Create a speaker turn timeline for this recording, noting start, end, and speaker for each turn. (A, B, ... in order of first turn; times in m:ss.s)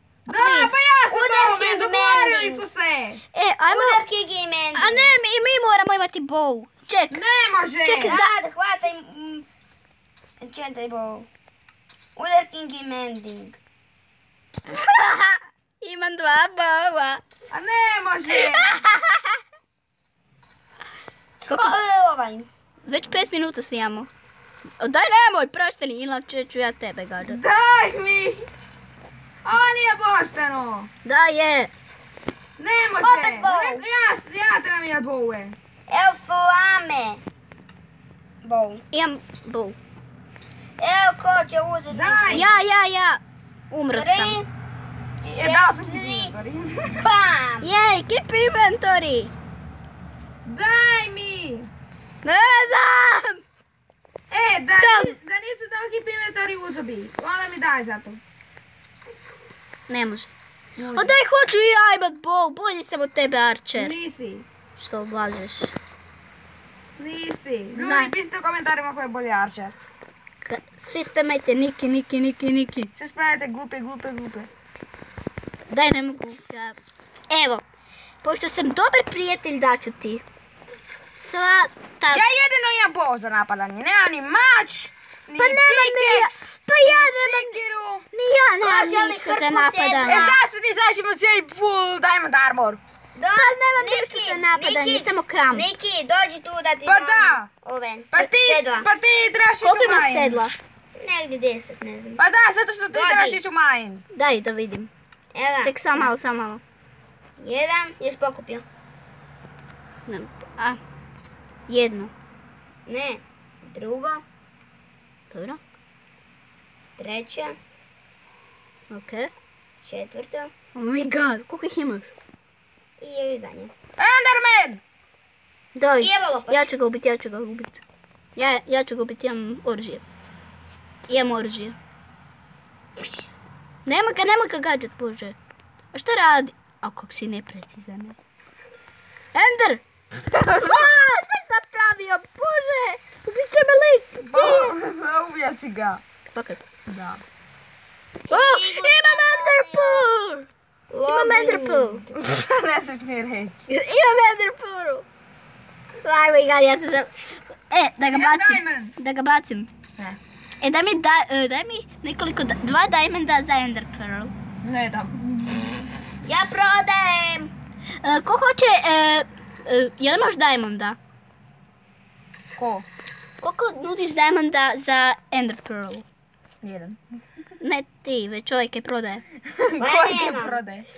0:00.3-0:00.8 A
0:00.3-0:03.2 B
0:01.1-0:02.6 C
0:03.3-0:04.0 A
0:03.6-0:05.1 C
0:04.7-0:07.2 A
0:07.1-0:08.2 B
0:07.8-0:08.3 A
0:07.9-0:09.4 C
0:10.4-0:11.3 C
0:12.2-0:13.6 C
0:14.7-0:17.2 A
0:17.5-0:18.8 B
0:18.3-0:19.4 A
0:21.4-0:22.5 C
0:21.5-0:21.8 A
0:22.8-0:24.1 A
0:24.8-0:27.4 A
0:27.2-0:28.5 B
0:29.4-0:30.9 B
0:31.0-0:31.7 A
0:32.6-0:35.6 B
0:32.8-0:33.9 C
0:35.9-0:37.2 C
0:38.4-0:38.8 C
0:38.9-0:39.8 A
0:40.8-0:42.6 C
0:41.9-0:42.4 B
0:42.3-0:44.4 A
0:43.9-0:44.5 C
0:45.2-0:46.3 C
0:45.2-0:47.1 B
0:47.0-0:47.7 C
0:47.6-0:49.3 A
0:50.4-0:51.7 B
0:52.2-0:53.4 A
0:54.3-0:58.2 B
0:54.8-0:55.2 A
0:59.9-1:00.3 A
1:00.8-1:01.2 B
1:00.9-1:04.0 A
1:03.7-1:04.4 B
1:04.8-1:05.7 A
1:07.0-1:09.7 B
1:07.7-1:08.1 A
1:10.4-1:12.9 A
1:13.0-1:14.5 B
1:15.7-1:16.8 A
1:17.3-1:17.6 A
1:18.2-1:20.2 A
1:21.2-1:22.2 A
1:22.1-1:28.0 B
1:25.4-1:27.6 A
1:28.1-1:30.3 A
1:28.6-1:30.4 C
1:30.0-1:32.8 B
1:33.2-1:38.9 C
1:33.3-1:35.7 A
1:36.8-1:37.5 B
1:38.1-1:40.4 B
1:39.6-1:40.5 A
1:41.0-1:42.2 C
1:42.2-1:44.0 B
1:42.9-1:43.4 C
1:44.1-1:44.9 A
1:45.3-1:46.1 C
1:45.6-1:46.6 A
1:47.4-1:48.6 C
1:50.1-1:50.8 A
1:51.7-1:52.1 A
1:52.9-1:54.2 C
1:55.3-1:55.6 A
1:57.0-1:57.6 C
1:58.9-1:59.3 A
1:59.8-2:00.5 C
2:00.7-2:02.1 A
2:03.0-2:03.7 C
2:04.0-2:04.8 B
2:05.8-2:07.8 A
2:06.0-2:06.7 C
2:08.4-2:10.0 A
2:11.1-2:11.8 A
2:13.8-2:15.4 A
2:15.9-2:18.2 A
2:19.3-2:24.7 A
2:24.2-2:26.0 B
2:26.3-2:26.8 A
2:26.9-2:27.2 B
2:28.3-2:30.1 C
2:28.3-2:30.5 A
2:30.9-2:32.1 C
2:31.1-2:32.0 A
2:32.1-2:33.6 B
2:33.7-2:35.0 A
2:36.0-2:39.7 A
2:38.1-2:38.9 B
2:40.6-2:44.3 A
2:44.6-2:45.7 B
2:46.2-2:47.5 C
2:48.0-2:51.0 A
2:52.6-2:52.8 B
2:53.4-2:56.0 A
2:56.6-2:57.0 B
2:57.6-2:59.2 A
2:59.5-3:00.9 B
2:59.8-3:00.6 C